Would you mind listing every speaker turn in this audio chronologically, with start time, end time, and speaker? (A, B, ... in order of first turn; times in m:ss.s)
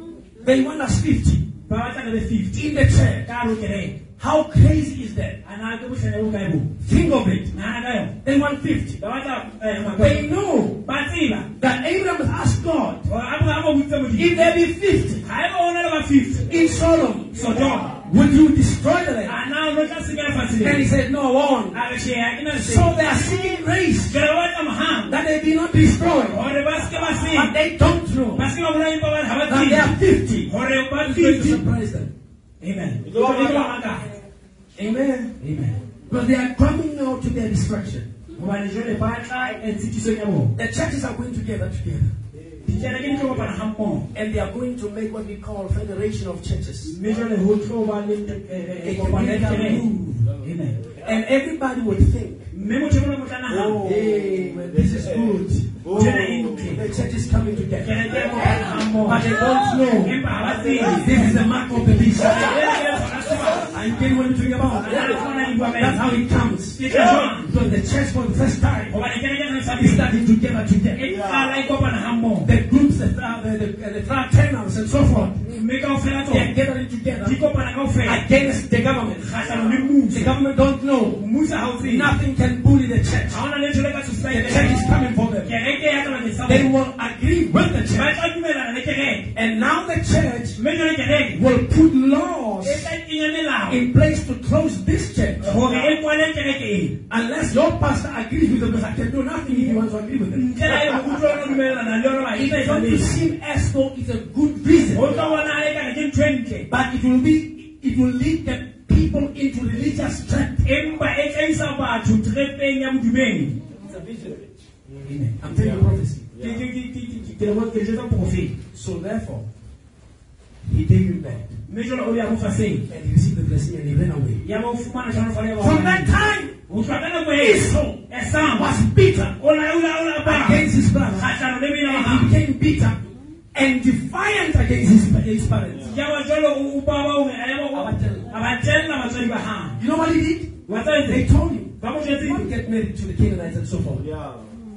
0:00.4-0:01.4 A
0:01.7-0:02.7 B
0:02.5-0:03.3 A
0:03.2-0:04.0 B
0:04.2-0:05.4 A
0:05.4-0:06.7 B
0:06.8-0:07.5 A
0:07.5-0:08.2 B
0:08.2-0:09.0 A
0:09.0-0:10.3 B
0:10.0-0:10.8 A
0:10.8-0:11.5 B
0:11.6-0:13.1 A
0:13.1-0:14.6 B
0:14.2-0:15.2 A
0:15.2-0:16.5 B
0:16.5-0:19.4 A
0:17.3-0:17.9 B
0:19.2-0:20.9 B
0:20.6-0:21.8 A
0:21.7-0:23.4 B
0:22.5-0:24.2 A
0:24.1-0:25.2 B
0:25.1-0:26.4 A
0:26.3-0:27.6 B
0:27.3-0:28.5 A
0:28.4-0:31.6 B
0:29.5-0:32.1 A
0:32.6-0:34.1 B
0:33.0-0:33.7 C
0:33.2-0:33.7 A
0:34.8-0:35.3 A
0:35.4-0:35.8 B
0:36.1-0:38.1 A
0:38.3-0:40.5 B
0:40.6-0:42.1 A
0:42.6-0:44.1 B
0:44.1-0:47.0 A
0:46.8-0:50.8 B
0:48.8-0:50.2 A
0:51.0-0:52.5 A
0:52.5-0:53.9 B
0:53.5-0:56.9 C
0:53.8-0:55.8 A
0:55.9-0:56.8 B
0:56.6-0:58.1 A
0:57.8-1:01.4 B
0:59.0-1:00.2 A
1:00.4-1:01.3 C
1:00.7-1:02.6 A
1:02.2-1:03.7 B
1:03.7-1:08.9 A
1:04.8-1:06.1 B
1:06.8-1:07.5 B
1:06.9-1:07.2 C
1:08.9-1:10.1 B
1:09.7-1:11.0 A
1:10.9-1:12.5 B
1:11.0-1:11.6 C
1:12.4-1:15.4 A
1:15.5-1:16.5 B
1:16.3-1:17.4 A
1:17.2-1:18.2 B
1:18.0-1:19.3 A
1:19.2-1:20.4 B
1:19.4-1:19.9 C
1:20.1-1:21.2 A
1:21.2-1:22.1 B
1:21.8-1:23.4 A
1:23.3-1:26.7 B
1:24.3-1:25.5 A
1:26.4-1:28.1 A
1:27.9-1:29.3 B
1:29.3-1:30.6 A
1:30.6-1:31.4 B
1:31.3-1:32.9 A
1:32.6-1:33.8 B
1:33.7-1:35.7 A
1:35.4-1:37.0 B
1:35.6-1:35.9 C
1:37.1-1:41.1 A
1:39.4-1:39.8 B
1:40.3-1:43.2 B
1:42.3-1:45.1 A
1:44.9-1:46.7 B
1:45.0-1:45.5 C
1:46.7-1:50.6 A
1:50.6-1:53.6 B
1:53.8-1:54.5 A
1:54.9-1:56.6 C
1:55.0-1:55.4 B
1:55.4-1:56.3 A
1:56.4-1:58.6 B
1:58.7-1:59.5 A
2:00.6-2:01.6 A
2:01.7-2:02.9 B
2:02.9-2:04.4 A
2:04.4-2:06.2 B
2:05.6-2:06.6 A
2:06.7-2:08.8 B
2:07.3-2:09.4 A
2:09.4-2:12.3 B
2:10.2-2:11.3 A
2:11.8-2:15.9 A
2:15.7-2:16.0 C
2:15.8-2:19.8 B
2:17.7-2:18.3 A
2:19.8-2:24.0 A
2:20.6-2:22.5 B
2:24.0-2:24.6 C